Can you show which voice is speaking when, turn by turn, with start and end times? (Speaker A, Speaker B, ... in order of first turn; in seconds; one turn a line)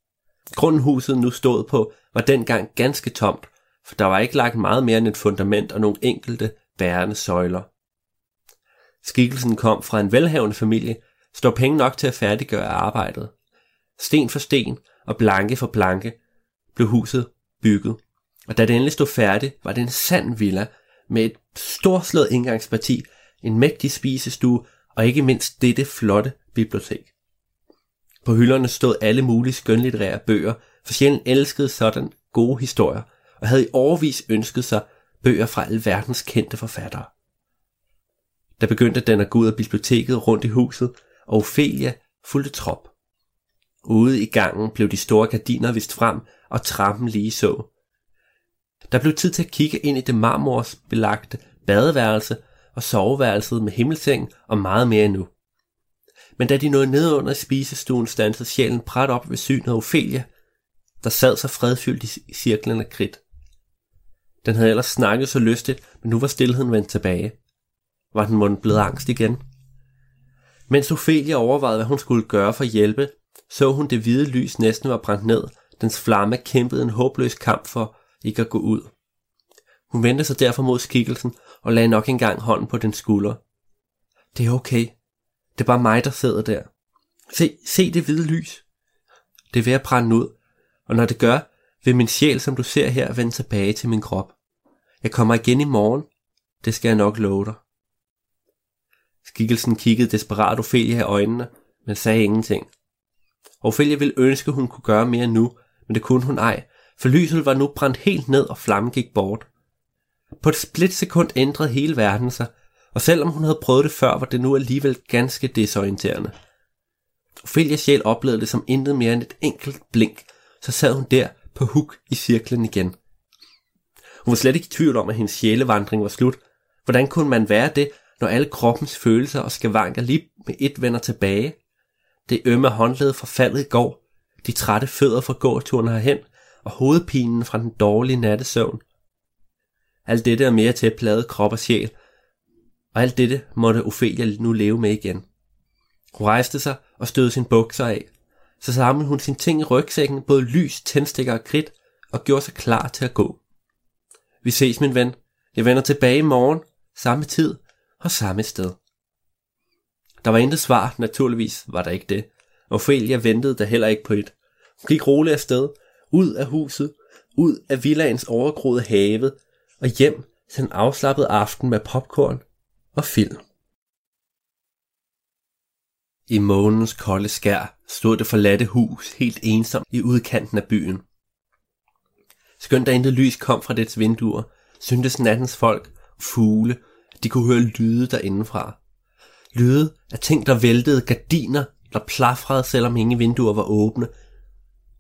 Speaker A: 0.5-7.7
Speaker A: 9.0-13.3
Speaker A: 14.0-16.2
Speaker A: 16.7-27.1
Speaker A: 28.2-37.1
Speaker A: 38.6-42.9
Speaker A: 43.8-47.7
Speaker A: 48.9-55.3
Speaker A: 56.4-60.3
Speaker A: 61.0-63.2
Speaker A: 64.4-67.3
Speaker A: 68.1-69.4
Speaker A: 70.7-78.9
Speaker A: 79.9-83.4
Speaker A: 84.3-84.9
Speaker A: 85.5-86.7
Speaker A: 87.3-88.6
Speaker A: 89.5-90.3
Speaker A: 90.9-94.3
Speaker A: 95.0-96.1
Speaker A: 96.6-97.6
Speaker A: 99.2-102.7
Speaker A: 103.6-109.5
Speaker A: 110.4-116.3
Speaker A: 117.4-123.0
Speaker A: 124.2-131.6
Speaker A: 132.3-138.8
Speaker A: 140.1-141.9
Speaker A: 142.9-145.2
Speaker A: 146.1-148.1
Speaker A: 148.6-153.4
Speaker A: 154.4-158.8
Speaker A: 160.2-172.4
Speaker A: 172.9-173.4
Speaker A: 176.3-181.0
Speaker A: 182.6-188.8
Speaker A: 189.5-194.1